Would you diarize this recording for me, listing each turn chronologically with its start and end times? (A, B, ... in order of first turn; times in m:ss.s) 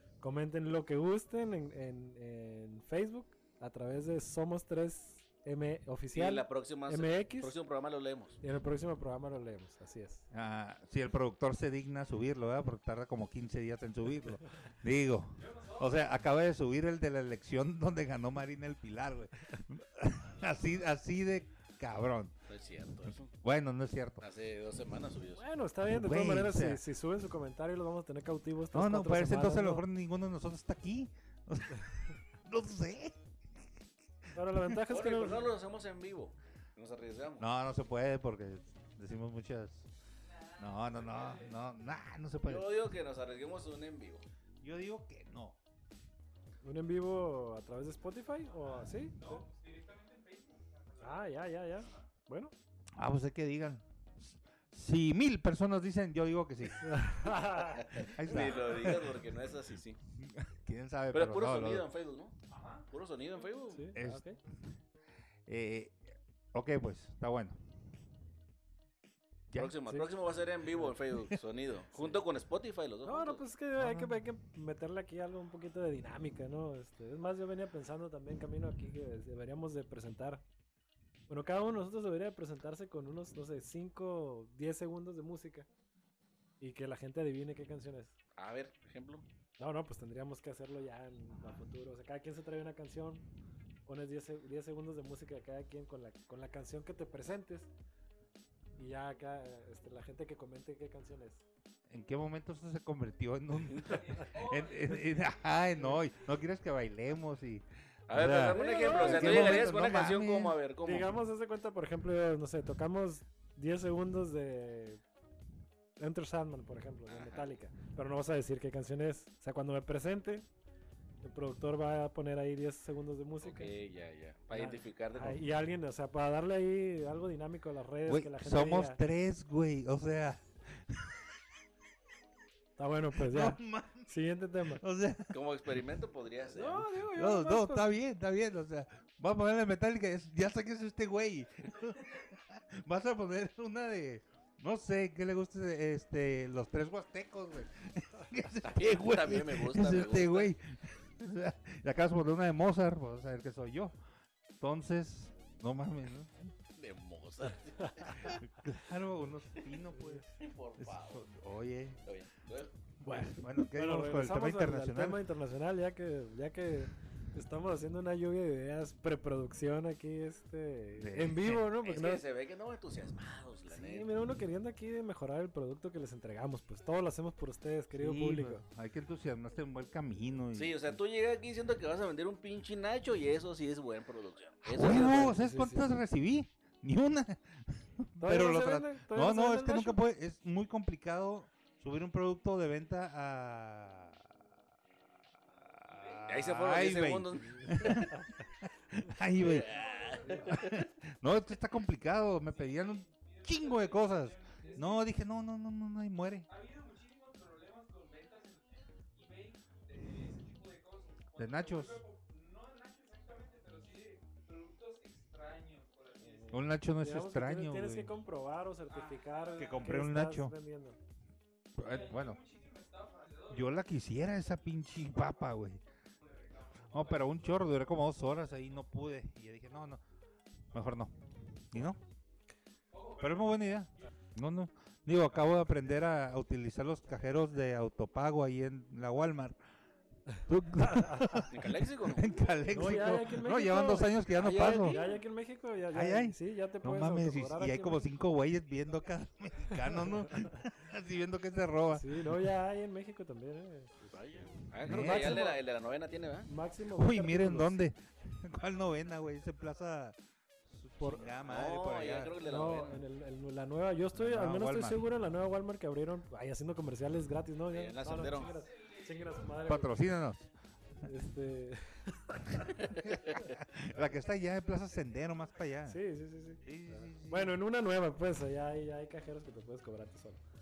0:00.2-0:07.6 A
0:06.1-0:08.4 B
0:08.4-0:10.2 A
0:10.3-0:22.3 C
0:15.3-0:16.0 D
0:22.5-0:23.3 B
0:23.3-0:24.2 C
0:24.2-0:25.4 B
0:25.3-0:29.8 A
0:25.8-0:26.8 C
0:28.7-0:33.7 C
0:34.3-0:35.5 A
0:34.9-0:37.5 B
0:37.4-0:39.9 C
0:40.2-0:41.6 D
0:40.6-0:42.8 C
0:42.4-0:44.2 B
0:44.6-0:45.6 C
0:46.6-0:49.4 A
0:49.1-0:52.0 D
0:51.0-0:52.5 A
0:53.0-0:57.2 C
0:56.8-0:58.1 A
0:57.7-1:00.0 B
0:58.0-0:59.2 C
1:00.2-1:01.9 C
1:01.1-1:03.9 B
1:02.5-1:03.7 D
1:03.7-1:04.4 A
1:03.9-1:04.8 C
1:05.4-1:07.6 C
1:09.5-1:09.8 C
1:09.5-1:13.4 B
1:13.0-1:20.4 A
1:13.8-1:14.2 C
1:21.3-1:25.7 A
1:26.6-1:28.1 A
1:28.4-1:29.2 B
1:29.6-1:33.2 A
1:33.8-1:37.7 A
1:38.7-1:41.4 A
1:41.9-1:50.6 C
1:43.8-1:45.4 D
1:48.1-1:51.1 B
1:48.5-1:49.7 A
1:50.8-1:55.0 A
1:56.0-2:00.4 A
1:57.1-1:57.5 B
2:01.2-2:03.7 A
2:03.4-2:05.4 B
2:04.5-2:09.0 A
2:08.0-2:11.3 C
2:12.8-2:14.8 A
2:13.1-2:14.1 C
2:14.7-2:15.7 C
2:15.3-2:16.8 B
2:16.5-2:17.9 A
2:16.8-2:34.0 C
2:28.6-2:30.5 B
2:34.6-2:36.5 C
2:36.8-2:38.4 B
2:38.1-2:42.0 C
2:40.4-2:41.2 B
2:42.0-2:42.8 B
2:43.0-2:45.2 C
2:43.1-2:52.2 A
2:51.0-2:51.6 C
2:51.8-2:54.1 B
2:53.7-2:58.6 A
2:58.0-3:01.0 C
3:00.5-3:05.4 B
3:04.6-3:14.4 C
3:04.9-3:05.9 A
3:08.2-3:10.0 A
3:15.4-3:19.7 C
3:15.9-3:16.3 D
3:16.3-3:17.9 B
3:17.6-3:18.3 A
3:19.4-3:20.8 B
3:19.4-3:20.8 D
3:20.4-3:26.5 C
3:22.5-3:25.1 D
3:26.5-3:36.7 D
3:31.4-3:32.0 C
3:36.2-3:41.0 A
3:36.5-3:38.1 C
3:38.9-3:40.0 D
3:39.6-3:40.5 C
3:41.7-3:42.4 C
3:41.8-3:43.8 D
3:43.5-3:45.8 C
3:46.2-3:47.5 D
3:46.9-3:50.0 C
3:50.7-3:51.1 C
3:51.7-3:52.0 C
3:52.9-3:54.1 D
3:53.2-3:59.6 C
4:00.4-4:05.0 C
4:00.8-4:01.4 A
4:01.5-4:02.4 B
4:02.2-4:03.1 D
4:02.7-4:08.0 A
4:04.4-4:05.2 B
4:05.9-4:12.5 C
4:09.9-4:10.4 A
4:11.9-4:14.2 A
4:14.1-4:16.5 B
4:14.8-4:15.4 C
4:14.8-4:15.6 A
4:16.4-4:17.8 A
4:16.9-4:22.4 C
4:21.0-4:21.3 A
4:21.4-4:23.0 B
4:22.4-4:29.9 A
4:24.1-4:25.0 C
4:27.7-4:28.6 B
4:28.2-4:29.7 D
4:29.6-4:30.5 C
4:31.0-4:33.0 A
4:33.0-4:36.0 C
4:35.8-4:40.4 A
4:36.6-4:37.6 C